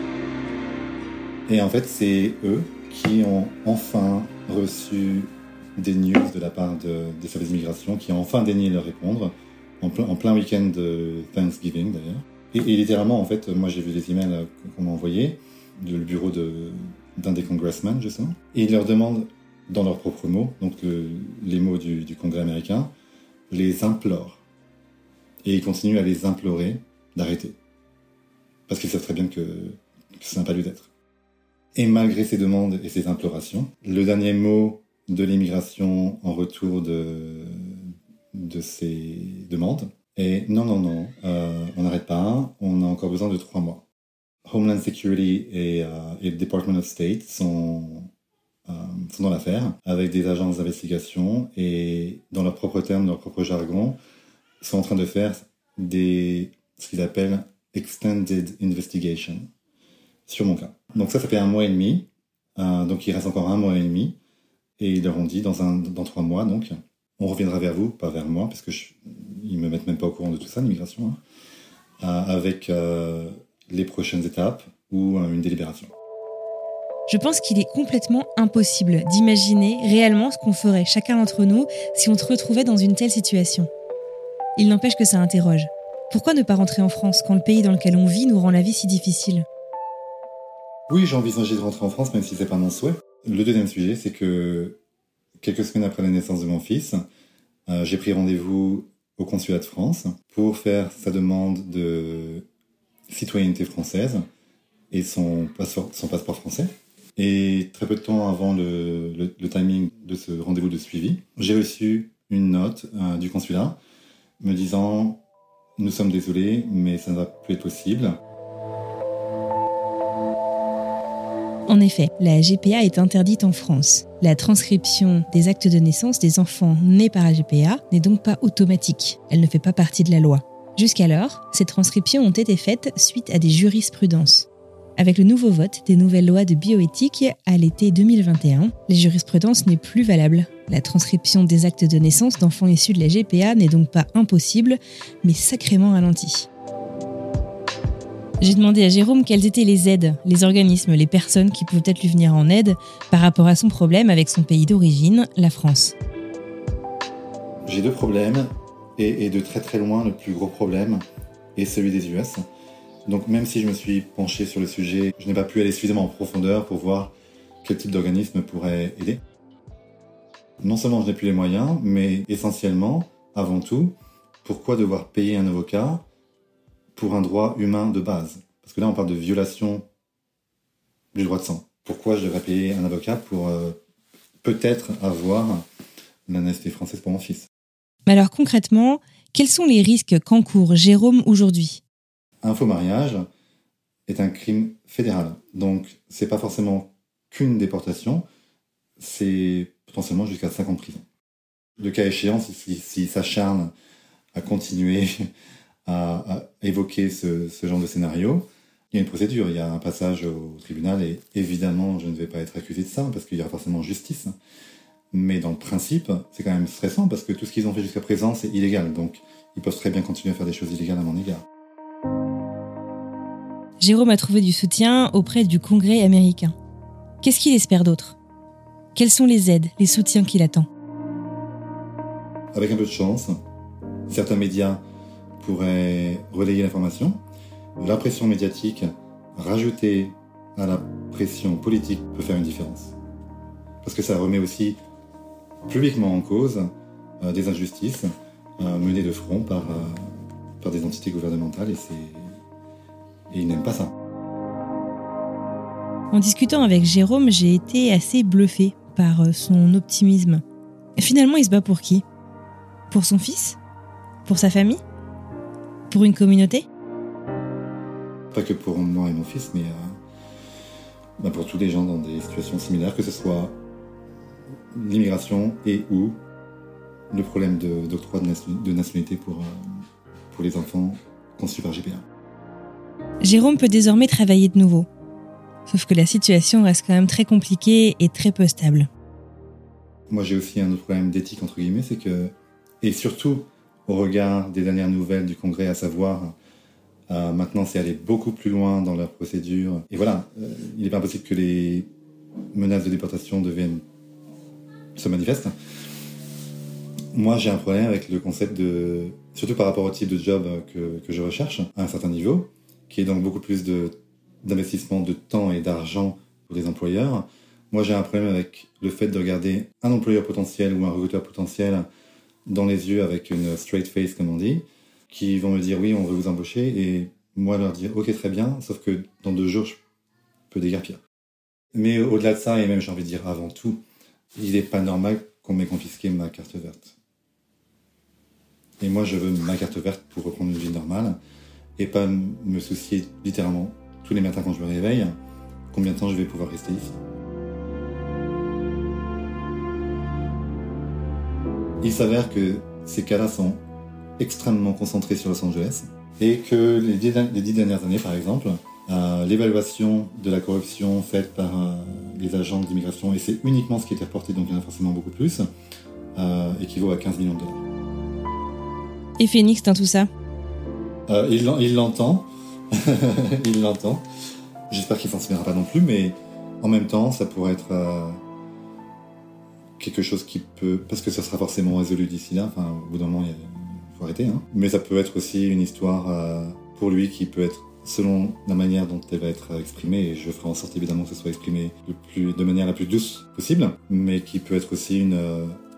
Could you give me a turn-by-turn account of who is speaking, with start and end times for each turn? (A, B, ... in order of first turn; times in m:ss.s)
0:01.5-0:22.9 A
0:23.5-0:24.4 A
0:25.4-0:27.6 A
0:28.7-0:30.9 A
0:31.8-0:43.8 A
0:44.5-0:48.1 A
0:48.7-0:54.0 A
0:54.6-0:59.5 A
1:00.3-1:04.2 A
1:04.8-1:11.2 A
1:12.0-1:15.9 A
1:17.1-1:23.7 B
1:24.6-1:29.4 B
1:30.9-1:34.8 A
1:35.4-1:37.1 A
1:37.7-1:42.5 A
1:43.1-1:44.3 A
1:44.9-1:53.8 A
1:54.4-1:55.2 A
1:55.8-1:58.2 A
2:01.7-2:26.5 B
2:28.4-2:36.0 B
2:37.6-2:41.0 A
2:41.6-2:42.4 A
2:43.1-2:49.2 A
2:50.6-2:56.1 A
2:57.0-2:59.9 A
3:01.1-3:03.8 A
3:04.4-3:05.7 A
3:06.3-3:07.5 A
3:08.1-3:11.8 B
3:12.4-3:13.3 A
3:14.1-3:18.2 A
3:19.0-3:21.1 A
3:21.8-3:23.7 A
3:24.3-3:25.3 A
3:25.9-3:34.4 A
3:35.1-3:41.5 A
3:43.8-3:46.6 B
3:47.2-3:48.2 B
3:49.0-3:50.7 B
3:52.5-3:53.4 A
3:54.1-3:54.8 A
3:55.4-3:57.2 A
3:57.8-4:03.0 A
4:03.8-4:04.8 A
4:05.7-4:10.1 A
4:10.6-4:12.3 A
4:13.3-4:13.9 A
4:16.1-4:20.4 B
4:21.0-4:22.0 B
4:22.9-4:23.6 B
4:24.2-4:24.8 B
4:25.9-4:26.7 B
4:28.3-4:30.0 A
4:31.2-4:33.6 A
4:34.7-4:36.2 A
4:37.1-4:39.6 A
4:40.3-4:42.1 A
4:43.2-4:44.9 B
4:45.7-4:48.9 B
4:50.1-4:56.4 A
4:57.1-5:01.9 A
5:02.5-5:03.8 A
5:05.0-5:05.5 A
5:07.1-5:21.9 A
5:22.5-5:29.8 A
5:30.5-5:31.0 A
5:31.8-5:33.8 A
5:34.4-5:37.0 A
5:38.8-5:41.2 A
5:41.8-5:45.2 A
5:45.7-5:47.0 A
5:51.8-5:53.6 A
5:54.2-6:05.4 A
6:06.2-6:07.6 A
6:09.2-6:10.1 B
6:11.1-6:14.0 A
6:14.7-6:18.2 A
6:19.8-6:35.6 A